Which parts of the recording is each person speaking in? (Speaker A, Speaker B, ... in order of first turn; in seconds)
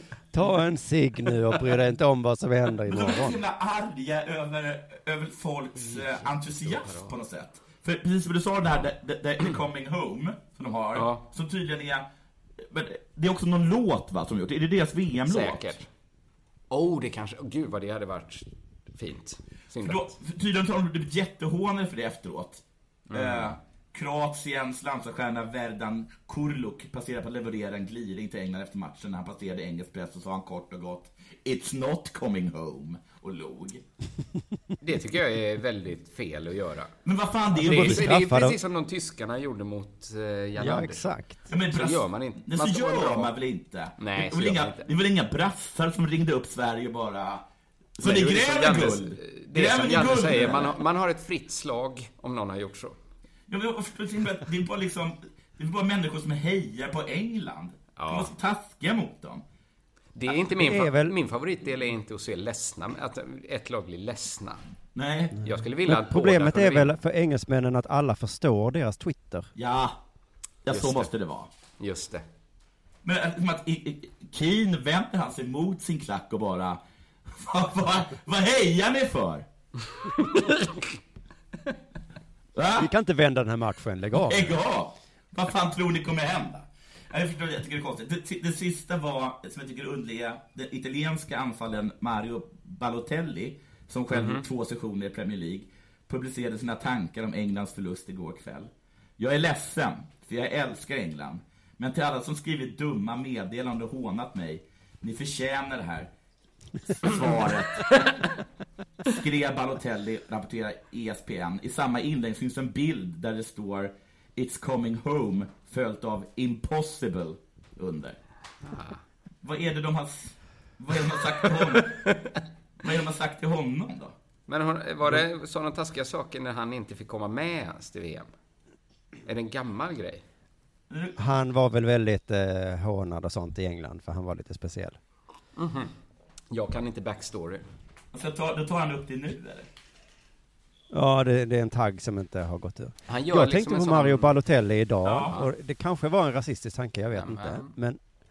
Speaker A: 0.3-3.4, 37.5-38.6, 40.6-41.4, 60.5-61.2, 65.8-69.5, 82.8-84.5, 131.2-135.0, 140.9-148.0
Speaker B: 2.9-12.1, 12.7-15.7, 19.8-33.8, 37.0-38.1, 41.5-47.4, 48.0-50.8, 53.5-59.4, 64.9-65.4, 69.5-70.0, 70.6-71.5, 73.0-79.4, 82.5-82.9, 84.1-106.1, 107.0-108.1, 109.0-118.2, 119.4-122.0, 122.8-124.1, 130.9-131.2, 138.1-139.7, 145.0-145.3
Speaker C: 5.8-7.1, 10.9-11.2, 15.2-15.9, 16.7-20.1, 23.1-23.6, 34.8-36.9, 37.6-41.1, 41.7-43.3, 44.0-44.9, 48.0-53.0, 58.0-58.3, 60.1-64.6, 65.4-66.9, 70.7-71.1, 71.8-72.2, 80.0-80.8, 94.1-94.4, 118.6-119.0, 121.4-122.4, 124.5-128.3, 129.2-130.2, 135.6-135.9, 136.5-137.7, 143.1-144.3, 147.1-147.7